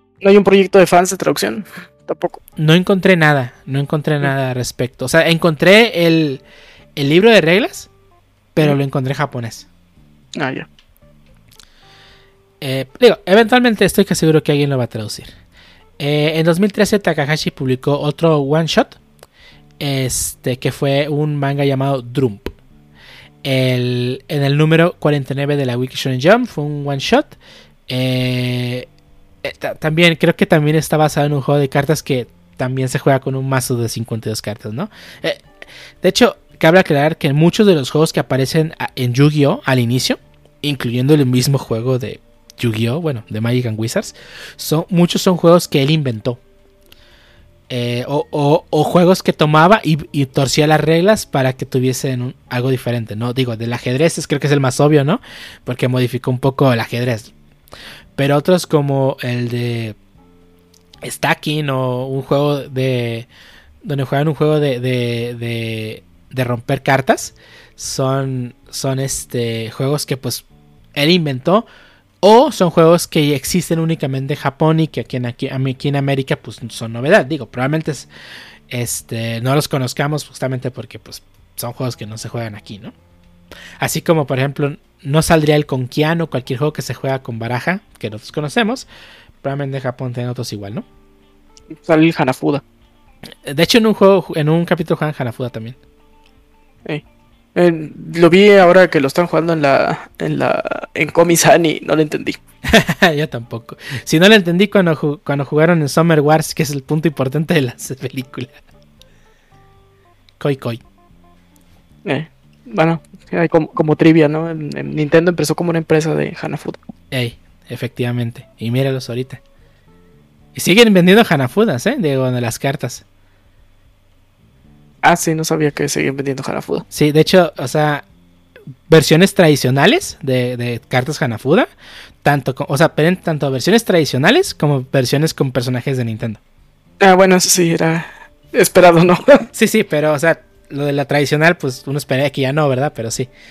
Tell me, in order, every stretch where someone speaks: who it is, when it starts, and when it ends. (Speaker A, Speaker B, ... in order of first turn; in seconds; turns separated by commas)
Speaker A: 0.2-2.4, Speaker B: 2.6-6.4, Speaker B: 7.0-7.9, Speaker B: 8.5-9.7, Speaker A: 10.3-10.7, Speaker B: 12.6-15.3, Speaker B: 16.0-18.9, Speaker B: 19.8-22.5, Speaker B: 23.4-27.4, Speaker B: 27.9-28.9, Speaker B: 29.4-35.4, Speaker B: 36.0-46.4, Speaker B: 47.7-57.3, Speaker B: 58.2-60.0, Speaker B: 61.0-63.3, Speaker B: 63.8-70.4, Speaker B: 71.0-71.7, Speaker B: 72.2-78.1, Speaker B: 78.7-82.9, Speaker B: 83.8-88.9, Speaker B: 89.4-90.8, Speaker A: 91.7-92.6, Speaker B: 93.5-95.8, Speaker A: 97.5-102.4, Speaker B: 102.7-108.6, Speaker B: 110.4-110.8, Speaker A: 112.0-116.8, Speaker B: 117.1-119.4, Speaker B: 120.5-123.0, Speaker A: 125.0-126.8, Speaker B: 126.9-128.0, Speaker B: 128.9-131.7, Speaker B: 132.2-136.4, Speaker A: 137.0-139.5, Speaker B: 139.5-143.3